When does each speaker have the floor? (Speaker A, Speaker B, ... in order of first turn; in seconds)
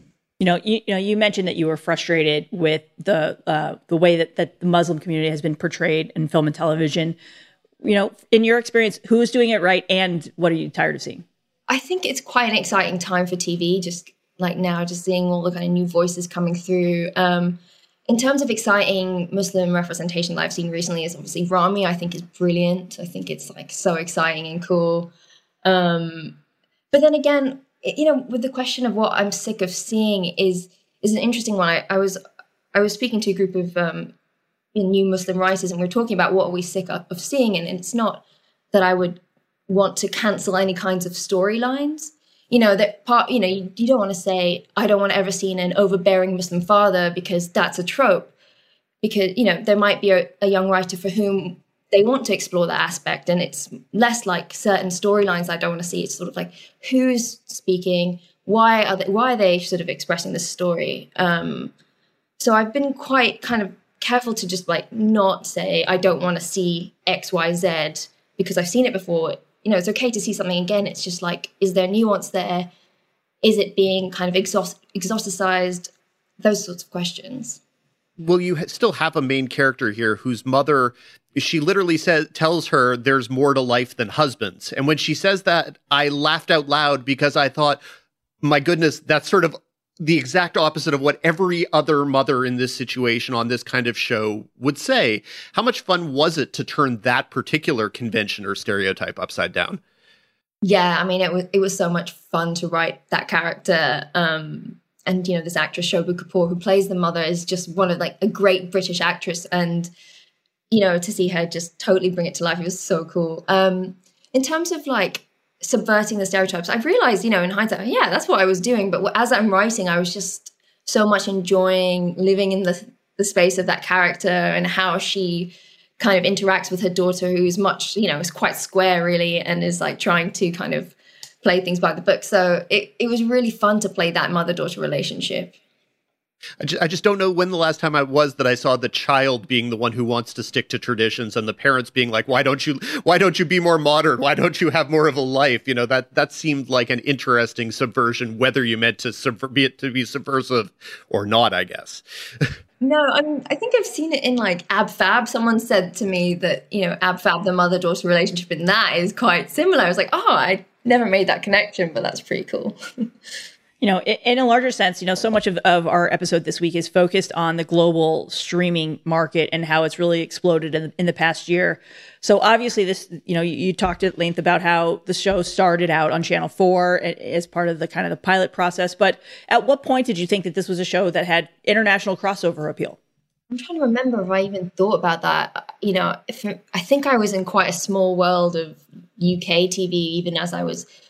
Speaker A: 0.4-7.2, 7.8-11.2, 163.8-183.0
Speaker B: 11.7-25.1, 25.6-26.4, 26.9-32.2, 32.7-34.1, 34.7-48.3, 49.0-61.7, 62.4-72.7, 73.4-77.6, 100.6-109.9, 110.7-135.6, 152.8-162.8, 183.5-190.9
Speaker C: 78.2-87.8, 88.4-99.8, 136.6-152.5